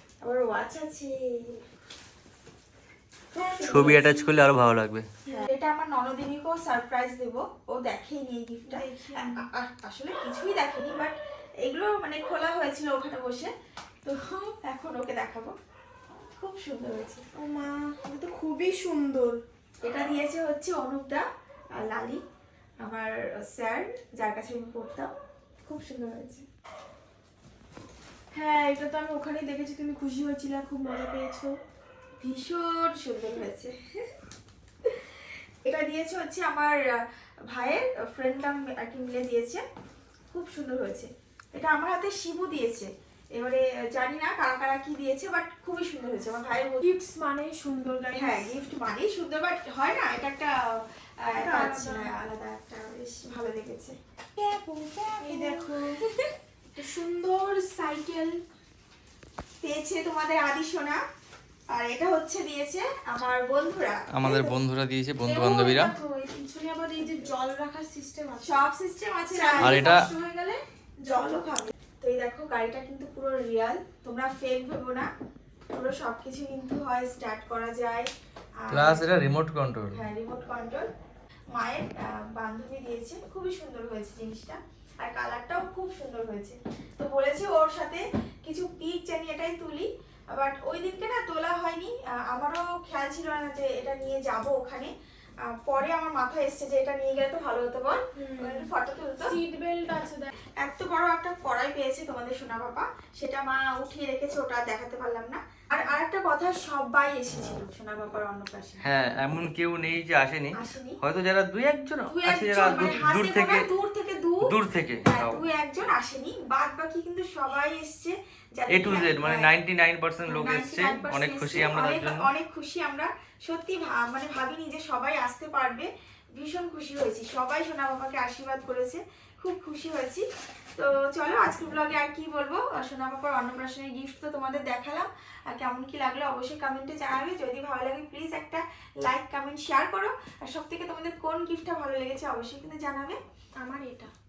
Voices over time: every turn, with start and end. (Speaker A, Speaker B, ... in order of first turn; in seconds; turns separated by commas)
Speaker A: 0.2-1.6, Speaker B: 3.3-4.3, Speaker A: 3.4-4.1, Speaker C: 3.6-5.1, Speaker A: 5.3-13.5, Speaker B: 8.7-9.5, Speaker A: 14.1-15.6, Speaker A: 16.4-17.2, Speaker B: 17.4-19.4, Speaker A: 19.8-22.2, Speaker A: 22.8-25.1, Speaker A: 25.7-26.4, Speaker B: 28.3-31.6, Speaker A: 32.2-34.1, Speaker A: 35.6-36.8, Speaker A: 37.5-39.6, Speaker A: 40.3-46.9, Speaker B: 46.8-48.5, Speaker A: 48.1-56.1, Speaker B: 51.4-52.1, Speaker B: 55.2-56.0, Speaker B: 56.8-58.4, Speaker A: 59.6-61.0, Speaker A: 61.7-64.5, Speaker C: 64.2-65.9, Speaker B: 65.2-68.7, Speaker A: 68.4-70.0, Speaker B: 69.3-71.4, Speaker C: 69.6-70.0, Speaker A: 71.1-75.1, Speaker A: 75.7-78.1, Speaker A: 78.6-79.1, Speaker C: 78.7-80.0, Speaker A: 79.9-80.9, Speaker A: 81.5-94.9, Speaker A: 95.5-99.4, Speaker B: 98.2-98.7, Speaker B: 99.2-100.3, Speaker A: 100.6-108.8, Speaker C: 108.8-113.7, Speaker A: 110.5-111.0, Speaker A: 112.1-114.4, Speaker B: 112.5-113.1, Speaker C: 114.5-115.4, Speaker A: 115.0-119.5, Speaker C: 118.7-122.3, Speaker A: 120.3-130.2, Speaker A: 130.8-143.2, Speaker B: 143.6-144.1